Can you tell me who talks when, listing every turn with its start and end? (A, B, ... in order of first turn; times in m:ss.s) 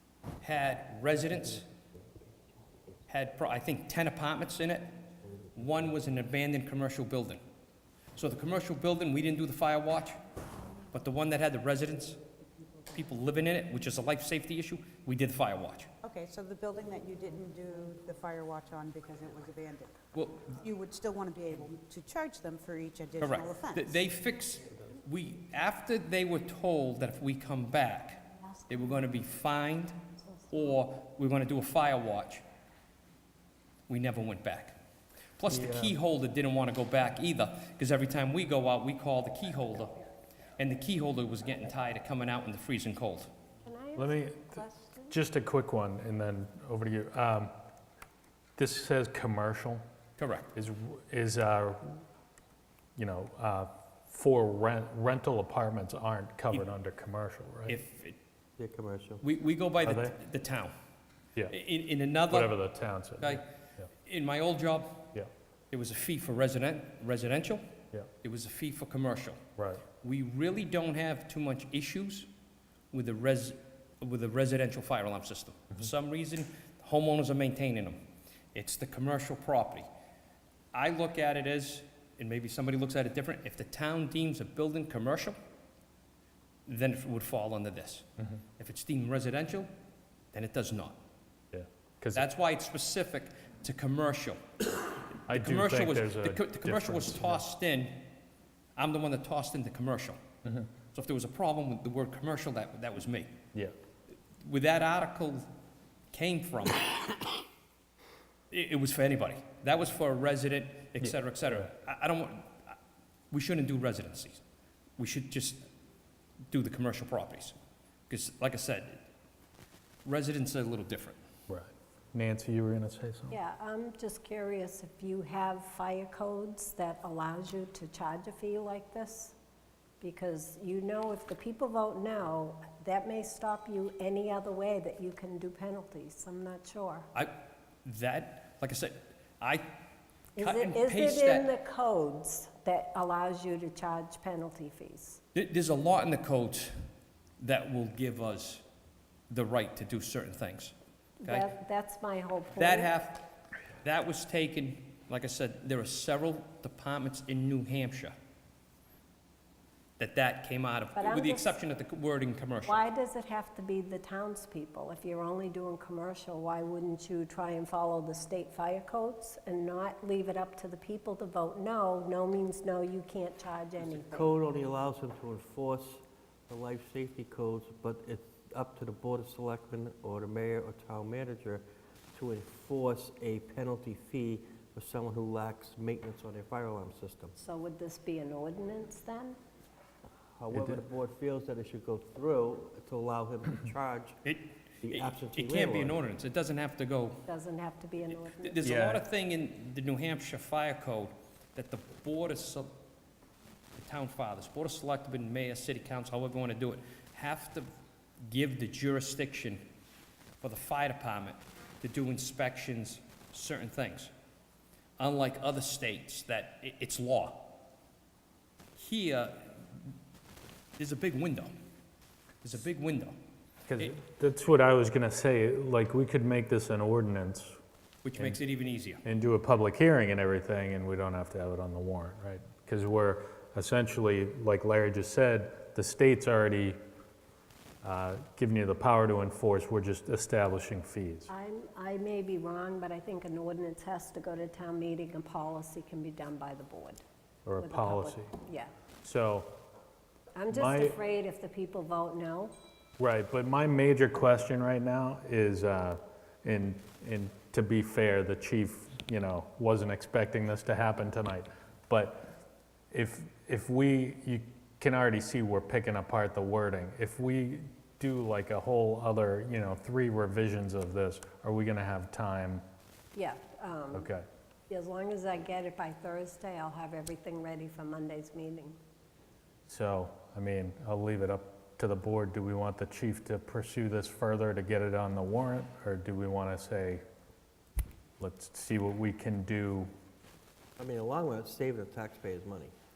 0:00.4-0:01.7 A
0:03.1-0:04.9 A
0:05.5-0:07.4 A
0:08.2-0:10.2 A
0:10.9-0:12.2 A
0:12.9-0:15.9 A
0:16.0-0:20.0 B
0:20.1-0:20.6 A
0:20.6-0:24.0 B
0:23.2-0:32.4 A
0:33.9-0:34.8 A
0:35.4-0:40.0 A
0:35.5-0:36.0 C
0:40.6-0:43.3 A
0:43.6-0:45.2 D
0:44.0-0:47.5 C
0:48.6-0:49.8 C
0:50.2-0:50.5 A
0:50.6-0:52.0 C
0:53.0-0:57.8 C
0:57.7-0:58.2 A
0:58.6-0:59.2 E
0:59.2-1:00.7 A
0:59.8-1:00.2 C
1:01.5-1:02.5 A
1:02.3-1:03.8 C
1:03.2-1:03.5 A
1:04.0-1:05.1 A
1:05.7-1:07.6 A
1:08.2-1:09.4 A
1:09.6-1:09.8 C
1:10.0-1:12.3 A
1:12.9-1:18.0 A
1:18.5-1:19.9 A
1:20.7-1:25.4 A
1:26.7-1:28.1 A
1:28.6-1:29.7 A
1:30.3-1:31.0 A
1:31.5-1:32.2 C
1:32.1-1:34.4 A
1:35.2-1:38.0 A
1:35.3-1:37.4 C
1:38.8-1:40.2 A
1:40.9-1:43.3 A
1:44.4-1:45.4 A
1:46.1-1:47.0 A
1:48.5-1:52.8 A
1:51.0-1:51.7 C
1:53.3-1:54.4 A
1:55.0-1:55.6 A
1:56.5-1:57.5 A
1:58.1-1:59.0 A
2:00.0-2:01.2 A
2:01.5-2:03.4 C
2:03.3-2:09.3 D
2:10.0-2:17.1 D
2:17.8-2:19.7 A
2:20.4-2:25.2 D
2:20.4-2:21.5 A
2:25.3-2:26.7 A
2:27.4-2:28.6 A
2:29.3-2:30.7 A
2:31.2-2:32.9 D
2:32.5-2:33.2 A
2:33.8-2:38.1 A
2:40.0-2:42.8 A
2:40.9-2:41.5 D
2:42.6-2:54.3 D
2:53.8-3:07.3 E
3:07.4-3:09.4 D
3:10.4-3:14.1 E
3:10.5-3:10.8 C
3:14.2-3:17.2 A
3:14.8-3:16.0 E
3:17.3-3:18.6 D
3:18.2-3:22.7 A
3:18.6-3:19.0 C
3:23.8-3:27.7 A
3:28.3-3:29.6 A
3:30.4-3:34.1 A
3:35.0-3:37.6 A
3:38.8-3:39.8 A
3:40.8-3:41.5 A
3:42.4-3:43.1 A
3:43.7-3:47.6 C
3:48.0-3:49.0 A
3:49.0-3:56.8 C
3:57.8-4:01.3 C
4:01.3-4:07.0 D
4:07.4-4:08.3 C
4:07.6-4:08.7 D
4:09.0-4:09.5 C
4:10.3-4:12.5 D
4:10.5-4:11.0 C
4:13.0-4:22.3 C
4:22.9-4:32.6 C
4:33.1-4:34.1 D
4:33.9-4:34.2 C
4:34.7-4:38.8 D
4:39.7-4:47.0 C
4:48.2-4:49.9 C
4:50.8-4:52.7 E